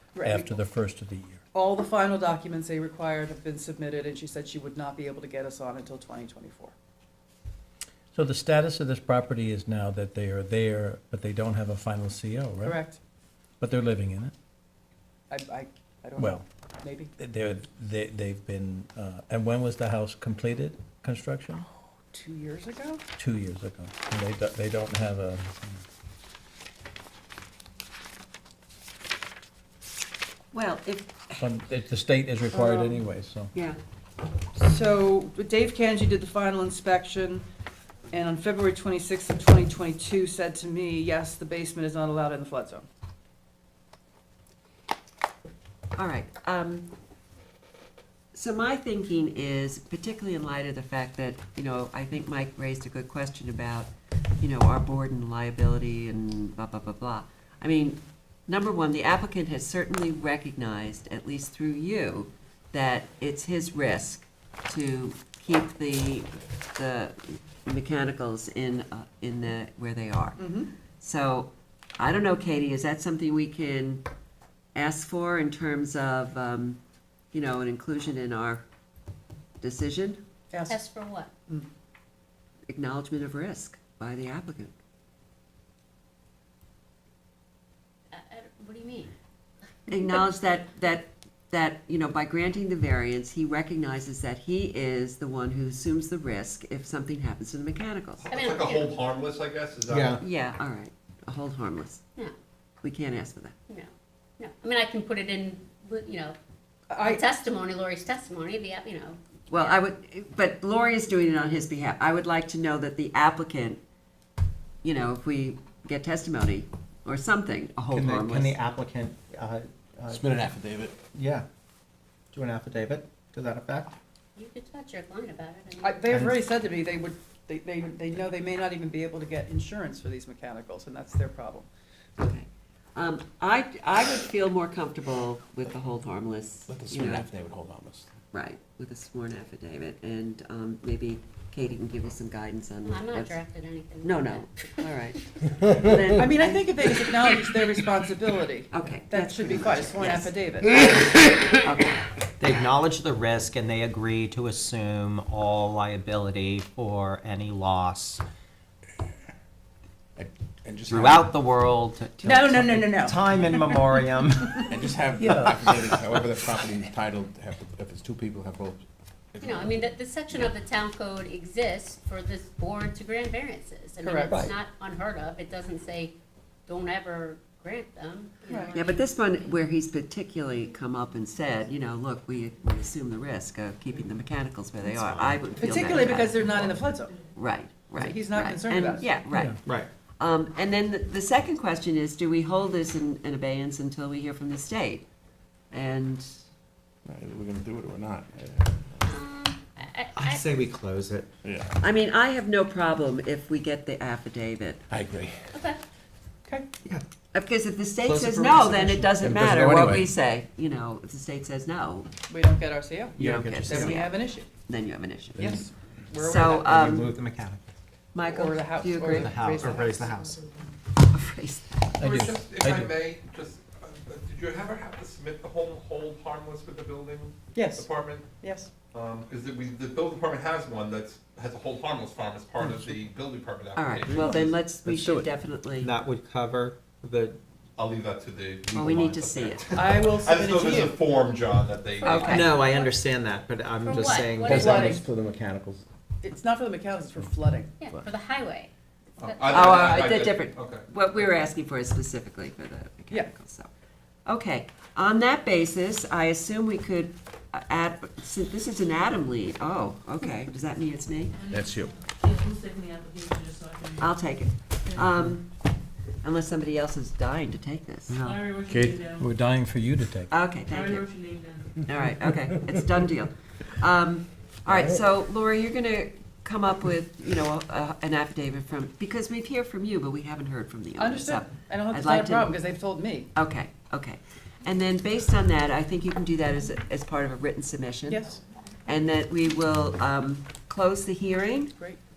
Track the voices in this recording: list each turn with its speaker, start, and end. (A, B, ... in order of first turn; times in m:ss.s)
0:00.1-0:00.5 A
0:00.2-0:01.4 B
0:01.5-0:06.7 A
0:08.1-0:12.8 B
0:12.6-0:13.0 A
0:13.6-0:14.3 B
0:15.3-0:17.1 A
0:16.2-0:16.4 B
0:17.2-0:21.7 B
0:22.1-0:23.0 A
0:23.2-0:25.8 B
0:30.5-0:31.4 C
0:31.4-0:33.5 B
0:32.6-0:32.9 C
0:34.5-0:37.4 A
0:38.1-0:42.8 A
0:46.0-0:46.9 C
0:48.3-1:14.0 C
1:10.4-1:10.7 A
1:14.7-1:16.8 C
1:17.3-1:18.6 C
1:19.6-1:20.2 C
1:20.5-1:20.8 A
1:20.7-1:21.3 D
1:22.7-1:24.7 C
1:28.1-1:29.1 D
1:29.9-1:38.2 C
1:38.2-1:40.2 E
1:38.3-1:39.1 D
1:39.9-1:40.2 F
1:40.2-1:42.0 C
1:42.8-1:43.6 C
1:43.7-1:46.4 D
1:46.9-1:47.2 A
1:46.9-1:49.8 D
1:49.5-1:53.8 C
1:54.8-1:58.6 C
1:57.9-2:00.2 F
2:00.1-2:01.0 G
2:01.1-2:01.4 F
2:02.3-2:03.9 F
2:04.4-2:06.1 D
2:05.8-2:11.7 A
2:06.1-2:06.4 F
2:12.2-2:17.3 C
2:16.7-2:18.1 G
2:18.3-2:23.4 C
2:22.8-2:24.5 D
2:24.0-2:27.1 C
2:26.1-2:30.8 A
2:28.7-2:32.1 C
2:32.4-2:38.2 H
2:40.2-2:41.4 G
2:40.9-2:44.8 H
2:42.2-2:44.8 A
2:44.6-2:48.8 G
2:45.2-2:45.5 B
2:49.3-2:49.9 G
2:49.4-2:56.1 D
2:54.0-2:54.4 A
2:56.7-2:59.0 D
2:58.5-2:58.7 A
2:58.7-3:06.6 C
3:05.5-3:07.1 A
3:07.3-3:15.0 C
3:07.9-3:09.1 A
3:09.3-3:09.6 B
3:15.7-3:16.3 C
3:17.0-3:19.2 G
3:19.0-3:20.5 D
3:20.3-3:20.9 F
3:20.6-3:21.2 H
3:21.4-3:21.7 G
3:21.8-3:24.8 C
3:24.9-3:25.5 G
3:25.5-3:25.8 D
3:26.4-3:26.7 A
3:27.3-3:32.1 C
3:28.1-3:29.0 F
3:29.2-3:30.1 G
3:32.3-3:34.5 A
3:33.2-3:35.5 C
3:33.2-3:34.0 F
3:35.4-3:36.9 A
3:35.4-3:35.7 G
3:36.2-3:37.1 C
3:36.7-3:37.6 F
3:38.1-3:39.9 C
3:38.2-3:40.7 A
3:39.1-3:40.4 F
3:41.1-3:41.7 C
3:42.0-3:42.9 B
3:42.0-3:54.6 E
3:47.5-3:48.7 A
3:53.7-3:55.9 C
3:54.8-3:55.2 F
3:55.8-3:57.4 F
3:57.8-4:02.6 E
3:58.7-3:59.8 C
3:59.7-4:01.0 A
4:02.0-4:02.5 C
4:02.0-4:05.8 F
4:02.6-4:02.8 D
4:03.8-4:04.8 D
4:04.2-4:05.0 A
4:04.4-4:05.8 G
4:06.2-4:07.8 A
4:07.8-4:10.1 D
4:09.2-4:10.8 E
4:09.5-4:13.7 C
4:14.2-4:21.3 C
4:21.3-4:24.1 I
4:21.5-4:21.9 G
4:24.0-4:25.6 C
4:26.2-4:28.2 C
4:28.1-4:30.3 B
4:28.2-4:29.3 I
4:30.3-4:31.1 C
4:30.7-4:31.8 I
4:31.8-4:42.6 C
4:41.0-4:43.3 A
4:43.3-4:48.2 C
4:48.1-4:48.4 A
4:48.9-4:51.8 C